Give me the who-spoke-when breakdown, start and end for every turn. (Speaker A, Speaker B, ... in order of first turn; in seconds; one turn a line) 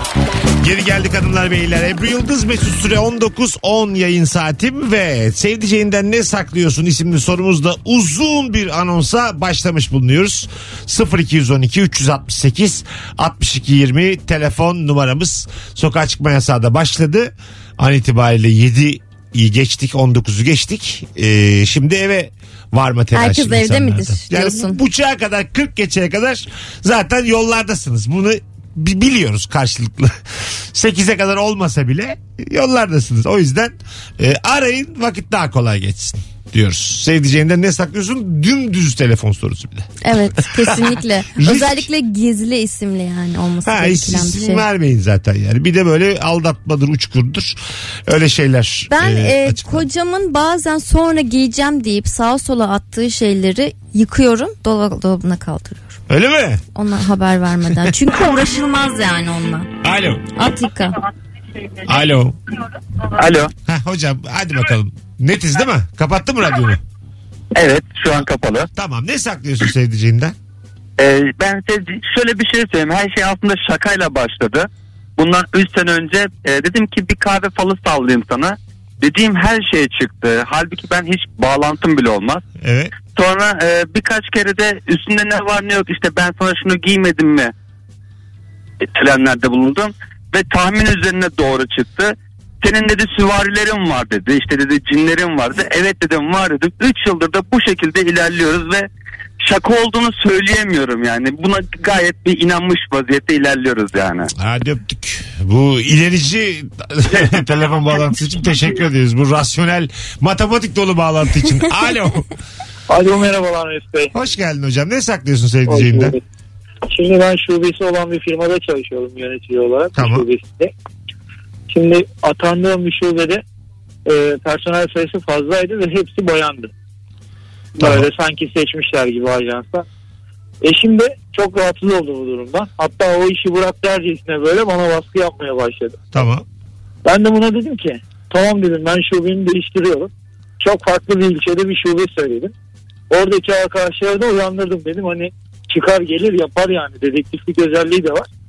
Speaker A: 0.6-41.9
Speaker B: 23.1-24.8
Speaker B: 40.0-44.6
Speaker A: 43.6-49.9
Speaker B: 48.9-56.0
Speaker A: 56.1-56.6
Speaker B: 56.8-59.7
Speaker A: 59.8-60.3
Speaker B: 60.3-61.0
Speaker A: 61.8-62.4
Speaker C: 63.1-63.5
Speaker A: 63.6-66.8
Speaker C: 67.5-68.7
Speaker A: 68.8-70.3
Speaker C: 71.0-82.4
Speaker A: 82.6-82.9
Speaker C: 83.1-87.5
Speaker C: 88.8-98.9
Speaker C: 99.4-104.3
Speaker A: 104.4-112.3
Speaker D: 112.9-114.1
Speaker A: 114.1-116.2
Speaker D: 115.7-116.1
Speaker D: 116.9-120.7
Speaker A: 120.0-120.3
Speaker D: 121.7-123.4
Speaker D: 124.1-126.7
Speaker D: 127.8-129.8
Speaker A: 127.8-128.1
Speaker D: 130.6-136.1
Speaker A: 136.1-136.4
Speaker D: 137.0-142.5
Speaker D: 143.1-148.3